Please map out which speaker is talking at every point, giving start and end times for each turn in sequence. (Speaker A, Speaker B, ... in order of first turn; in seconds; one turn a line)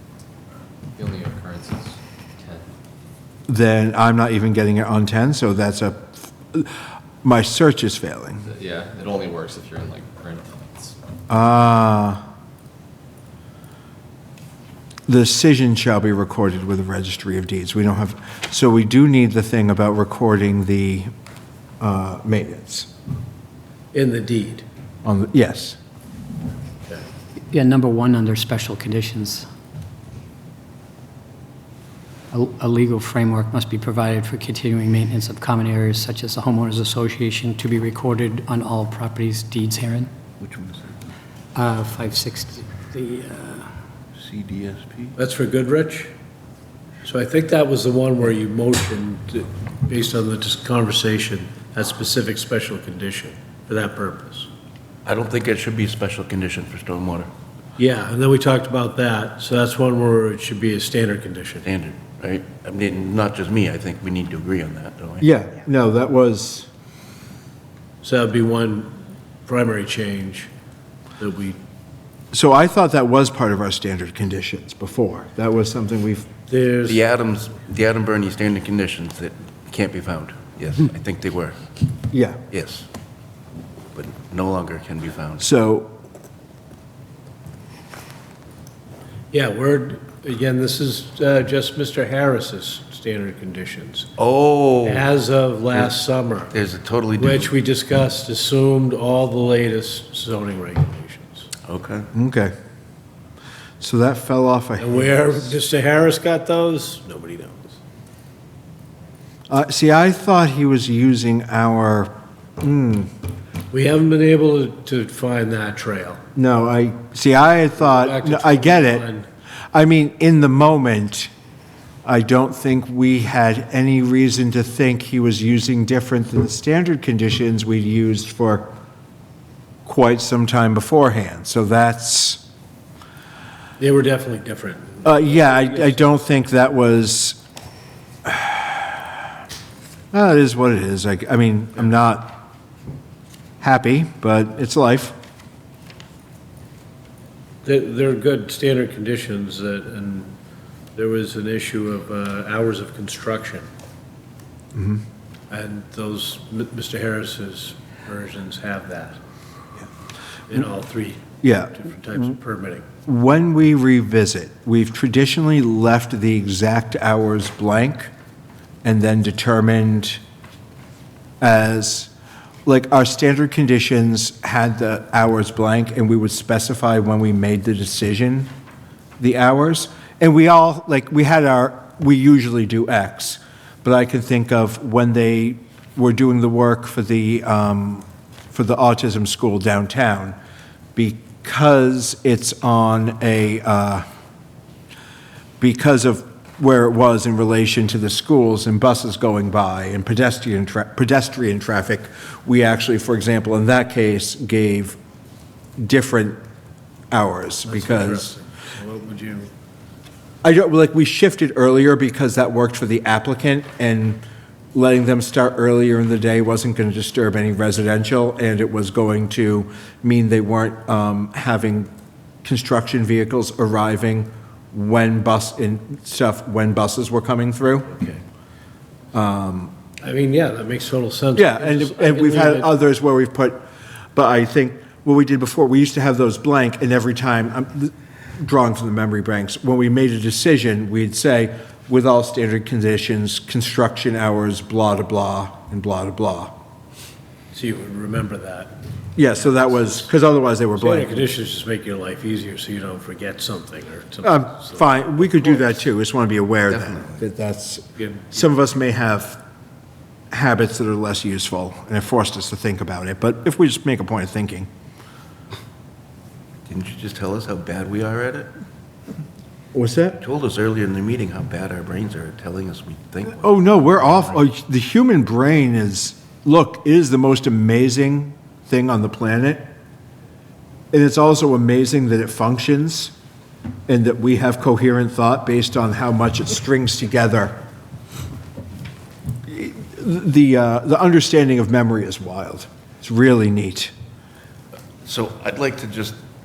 Speaker A: 0.9-2.6
Speaker B: 3.5-8.4
Speaker A: 8.4-11.0
Speaker B: 11.3-12.2
Speaker B: 15.1-21.1
Speaker B: 21.8-22.9
Speaker C: 23.9-24.6
Speaker B: 25.0-25.8
Speaker D: 27.5-29.5
Speaker D: 32.3-40.1
Speaker E: 40.4-40.9
Speaker D: 41.5-43.7
Speaker E: 44.2-45.1
Speaker C: 45.1-46.1
Speaker C: 47.0-54.5
Speaker E: 55.0-57.3
Speaker C: 57.8-61.6
Speaker E: 61.6-65.2
Speaker B: 65.2-66.7
Speaker C: 68.0-68.9
Speaker C: 69.5-70.5
Speaker C: 71.2-71.6
Speaker B: 72.3-76.2
Speaker C: 76.5-77.0
Speaker E: 76.8-81.6
Speaker B: 82.1-82.4
Speaker E: 82.5-82.8
Speaker E: 83.9-85.4
Speaker B: 85.4-85.9
Speaker C: 89.3-94.1
Speaker E: 94.2-95.1
Speaker C: 94.8-96.5
Speaker E: 96.5-97.5
Speaker C: 97.2-101.5
Speaker E: 101.7-102.1
Speaker B: 102.1-102.5
Speaker B: 103.8-105.5
Speaker C: 104.8-107.7
Speaker B: 109.5-113.1
Speaker C: 113.7-116.2
Speaker B: 116.3-119.1
Speaker C: 117.7-119.2
Speaker B: 119.7-121.3
Speaker B: 122.0-128.7
Speaker B: 129.8-132.4
Speaker C: 133.8-136.1
Speaker B: 135.0-137.4
Speaker B: 138.2-139.0
Speaker B: 140.1-142.4
Speaker B: 143.6-145.1
Speaker C: 147.6-150.3
Speaker C: 150.9-153.6
Speaker B: 154.7-155.0
Speaker C: 155.5-159.2
Speaker C: 160.5-162.8
Speaker B: 161.4-161.7
Speaker B: 163.1-168.1
Speaker B: 168.8-170.2
Speaker B: 171.4-172.1
Speaker B: 172.7-178.5
Speaker B: 179.2-190.4
Speaker B: 190.9-194.0
Speaker B: 195.6-205.0
Speaker B: 205.8-206.4
Speaker B: 207.1-208.3
Speaker C: 207.7-209.5
Speaker B: 210.4-214.2
Speaker B: 214.7-221.9
Speaker B: 222.4-227.9
Speaker C: 227.9-228.2
Speaker B: 229.1-229.7
Speaker C: 230.0-232.7
Speaker B: 231.3-233.6
Speaker B: 234.1-246.5
Speaker C: 247.5-248.7
Speaker B: 249.2-251.1
Speaker C: 249.3-250.1
Speaker C: 250.8-255.8
Speaker B: 254.2-259.4
Speaker E: 256.8-257.2
Speaker C: 258.0-258.4
Speaker B: 260.3-264.7
Speaker E: 266.7-268.5
Speaker B: 269.7-270.2
Speaker E: 270.2-273.5
Speaker B: 273.3-279.6
Speaker B: 280.9-283.1
Speaker B: 283.9-287.6
Speaker B: 289.5-293.9
Speaker E: 295.0-296.2